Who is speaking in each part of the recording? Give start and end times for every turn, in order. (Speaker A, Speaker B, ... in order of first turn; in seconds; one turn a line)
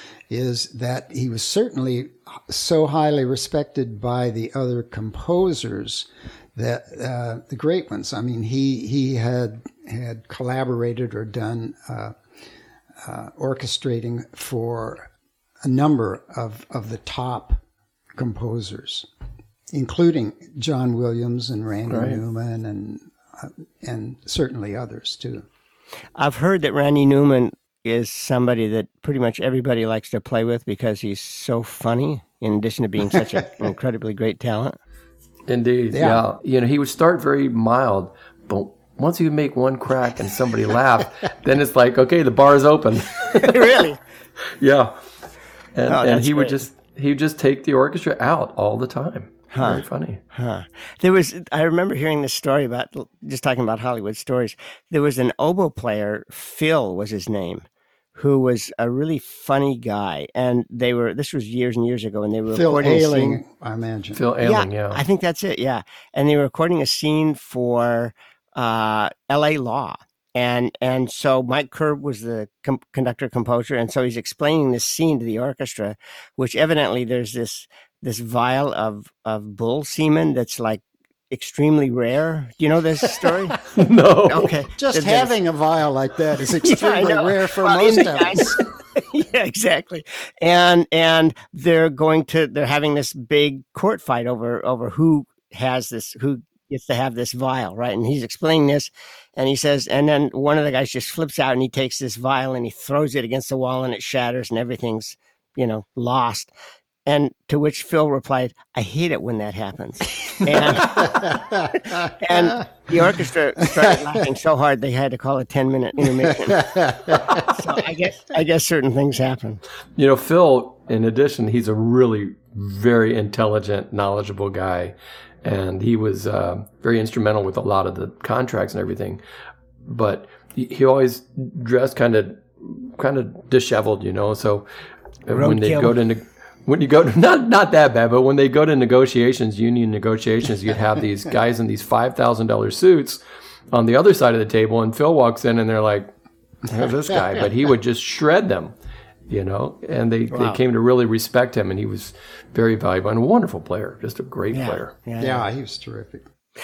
Speaker A: 0.3-12.2
Speaker A: 13.0-15.1
Speaker A: 15.6-17.6
Speaker A: 18.1-19.1
Speaker A: 19.7-25.4
Speaker B: 21.9-22.2
Speaker C: 26.2-34.8
Speaker B: 35.5-43.8
Speaker A: 35.9-36.2
Speaker C: 43.3-44.0
Speaker B: 44.6-45.0
Speaker B: 45.7-50.2
Speaker C: 45.9-46.6
Speaker C: 49.5-63.4
Speaker A: 62.5-64.2
Speaker B: 64.1-65.0
Speaker C: 64.4-83.6
Speaker B: 83.7-84.5
Speaker C: 84.3-85.3
Speaker A: 84.8-88.6
Speaker C: 86.6-106.5
Speaker C: 107.0-119.6
Speaker A: 111.0-111.6
Speaker A: 116.5-117.2
Speaker B: 120.0-129.2
Speaker B: 129.8-134.7
Speaker B: 135.2-143.2
Speaker C: 135.3-135.9
Speaker B: 143.7-146.1
Speaker B: 146.7-148.7
Speaker B: 149.3-154.9
Speaker C: 150.3-150.6
Speaker C: 154.5-155.4
Speaker A: 155.2-156.3